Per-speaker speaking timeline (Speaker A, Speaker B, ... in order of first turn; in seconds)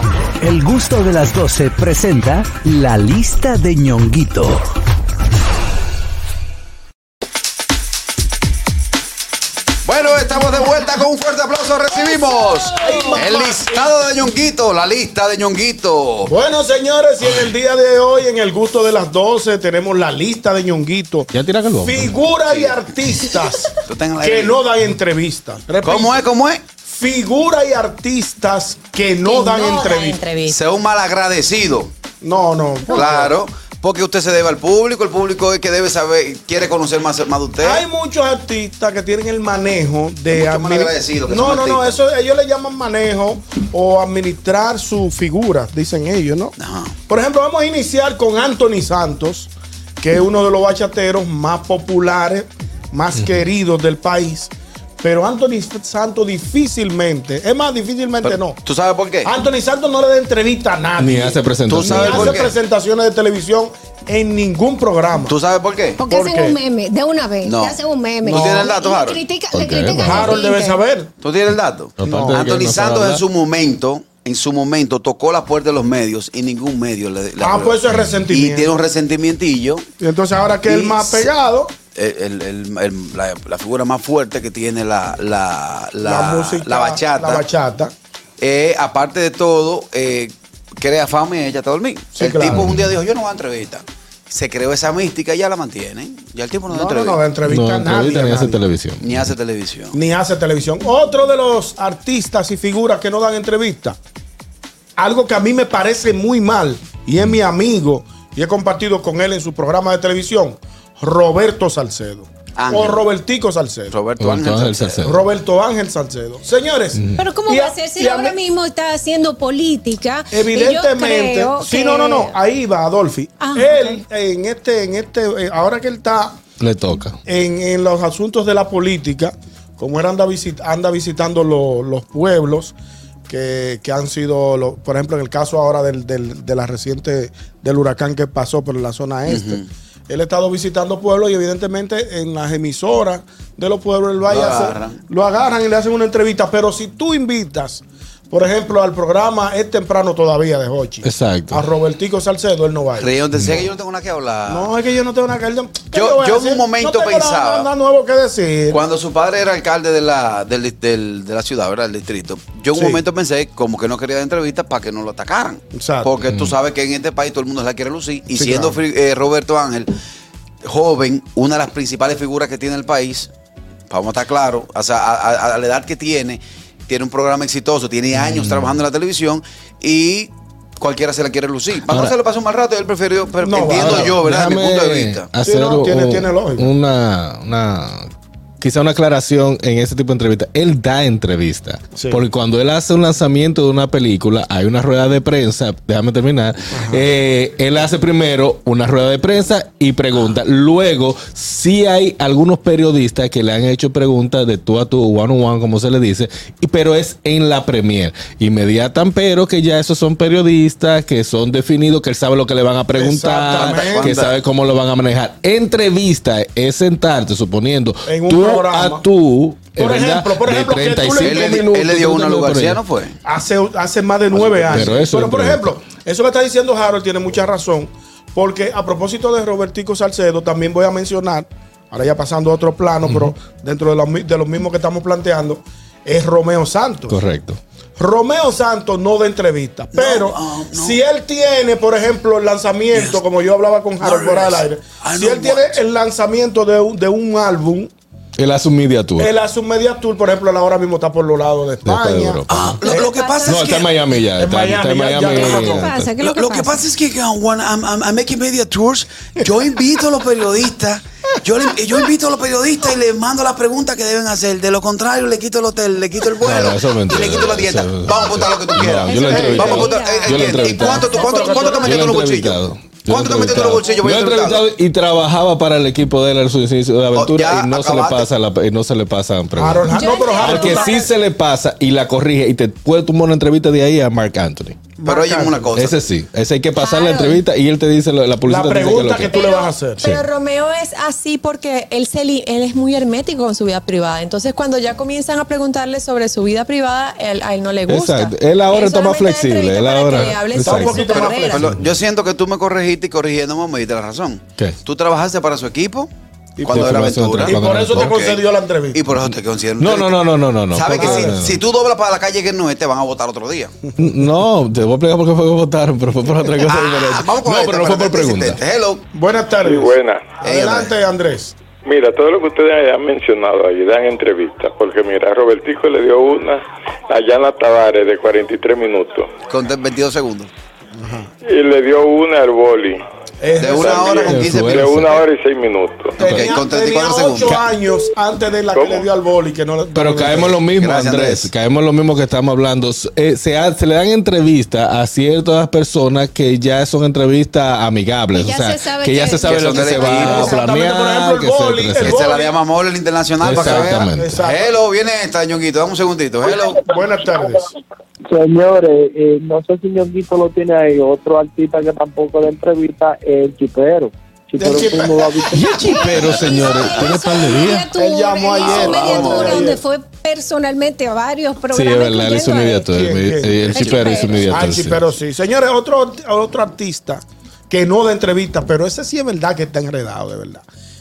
Speaker A: 0.4-4.6
Speaker B: 9.8-16.3, 22.5-22.8, 23.9-24.6, 25.8-26.6, 30.5-31.9, 32.9-37.8, 40.3-42.0, 46.6-46.9, 58.2-59.3, 61.7-62.5, 65.2-66.0, 67.4-69.2, 71.2-79.9, 80.7-81.3, 81.9-87.4, 88.4-97.2, 99.0-100.0, 112.5-113.0, 113.9-115.0, 139.3-139.6, 144.3-145.0, 153.0-154.7, 155.9-157.7, 158.7-169.9, 170.6-173.3, 173.9-185.3, 213.5-214.3, 221.2-223.2, 224.3-224.9, 239.9-241.0, 242.9-243.2, 244.0-245.8, 252.5-253.9, 256.2-274.6, 277.1-278.3, 285.0-286.0, 300.9-306.1, 306.6-310.2, 310.7-313.8, 316.6-319.0, 320.4-320.9, 329.5-330.5, 333.6-335.2, 336.2-337.7, 340.8-341.5, 349.4-350.5, 352.0-356.8, 366.2-367.1, 368.6-369.7, 373.8-374.0
Speaker C: 12.7-13.9, 16.2-26.2, 26.8-30.2, 32.2-33.4, 37.6-46.5, 47.1-58.6, 59.2-65.3, 66.1-66.6, 68.2-68.7, 70.0-71.1, 72.0-72.4, 77.4-78.7, 80.0-81.7, 86.0-87.9, 92.2-92.7, 96.7-98.6, 99.9-104.0, 105.0-113.9, 115.0-118.4, 120.3-126.4, 127.2-132.7, 133.3-153.1, 154.5-158.8, 162.7-163.0, 165.7-166.2, 168.3-168.8, 183.4-184.2, 185.4-186.7, 191.9-192.2, 196.7-197.1, 212.9-214.1, 218.1-219.0, 219.7-221.6, 223.2-237.2, 238.0-247.9, 249.2-253.1, 254.3-255.9, 269.2-269.8, 271.2-271.8, 279.5-281.0, 285.0-285.8, 288.4-290.0, 300.1-301.6, 306.6-309.0, 311.0-311.4, 319.1-321.5, 330.9-331.3, 333.4-334.5, 336.2-340.7, 350.2-352.6, 353.5-354.7, 356.8-357.7, 364.6-365.5, 367.9-369.8, 372.8-380.6
Speaker D: 21.3-22.2, 53.1-53.4, 61.0-62.4, 69.5-70.4, 72.0-73.2, 92.5-92.9, 97.4-99.3, 114.2-115.2, 126.6-127.2, 151.0-151.7, 153.4-153.7, 178.2-178.7, 183.7-188.1, 188.6-222.8, 224.6-225.7, 233.1-233.3, 237.1-237.6, 248.4-249.3, 251.8-252.8, 253.4-256.1, 266.4-284.8, 285.7-289.4, 297.9-300.9, 301.6-301.9, 306.7-308.2, 309.8-311.6, 314.0-318.6, 334.2-335.2, 336.3-336.5, 339.9-352.2, 353.4-354.4, 365.5-367.9, 371.7-375.1
Speaker E: 29.2-30.6, 286.7-287.4, 289.2-301.7
Speaker F: 66.0-70.8, 117.2-122.3, 123.4-124.0, 252.9-253.7, 255.2-256.8, 269.1-272.0, 279.9-281.1, 348.3-350.6, 365.7-372.9, 373.7-374.5
Speaker G: 319.6-320.4, 321.8-329.3, 331.4-333.0, 333.8-336.3, 338.7-339.1
Speaker H: 358.3-365.7